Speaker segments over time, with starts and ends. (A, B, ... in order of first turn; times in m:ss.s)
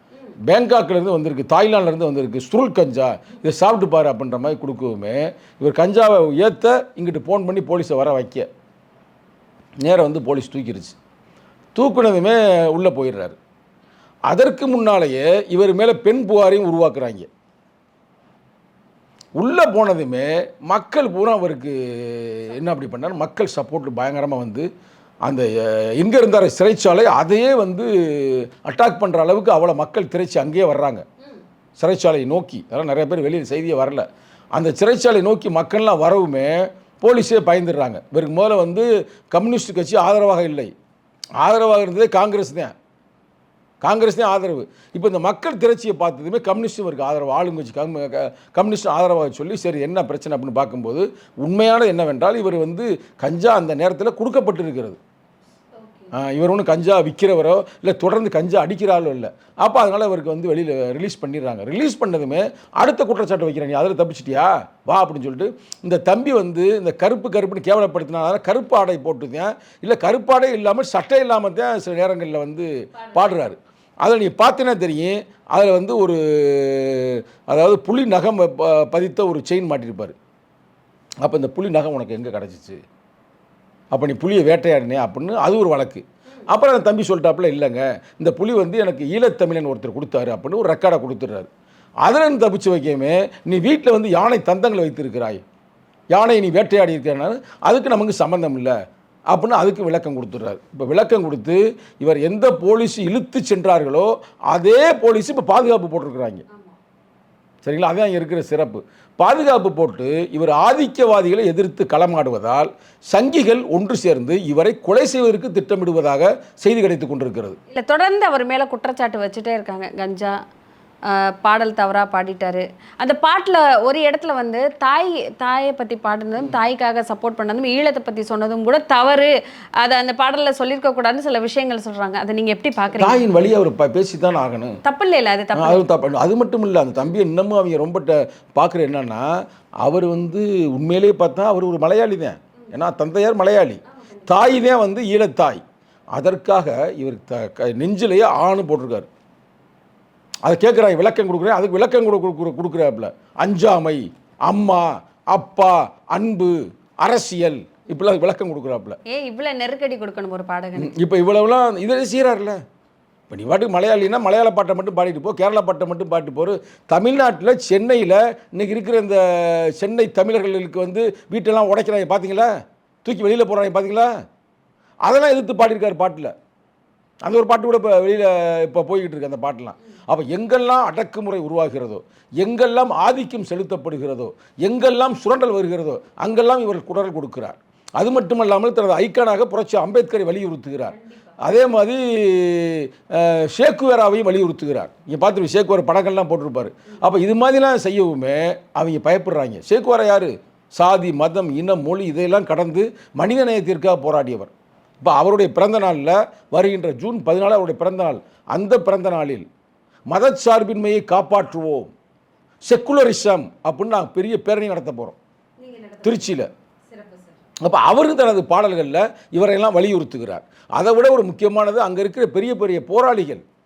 0:00.4-0:08.5 A
0:09.8-0:10.9 A
0:11.7-0:13.4 A
0:14.3-0:17.3 A
0:19.4-0:24.7 A
0:25.2-0:31.0 A
0:31.8-0:40.7 A
0:41.4-0:42.7 A
0:43.8-0:55.0 A
0:55.7-0:56.2 B
0:56.1-1:20.1 A
1:12.9-1:13.3 B
1:21.2-1:22.8 A
1:23.9-1:31.5 A
1:32.0-1:35.4 A
1:36.1-1:38.7 A
1:39.3-1:46.4 A
1:47.6-1:57.6 A
1:57.7-2:00.4 B
2:01.0-2:09.3 B
2:09.8-2:13.3 B
2:12.9-2:14.8 A
2:14.8-2:15.8 B
2:15.5-2:25.6 A
2:23.9-2:24.4 B
2:26.1-2:29.1 A
2:30.4-2:39.0 A
2:39.1-2:40.9 B
2:40.8-2:42.6 A
2:43.3-2:52.5 A
2:53.0-2:54.1 A
2:55.0-2:56.3 A
2:57.2-3:29.4 A
3:10.9-3:11.3 B
3:30.1-3:31.9 A
3:32.6-3:35.2 A
3:35.6-3:37.4 B
3:36.0-3:36.5 A
3:37.6-3:43.4 A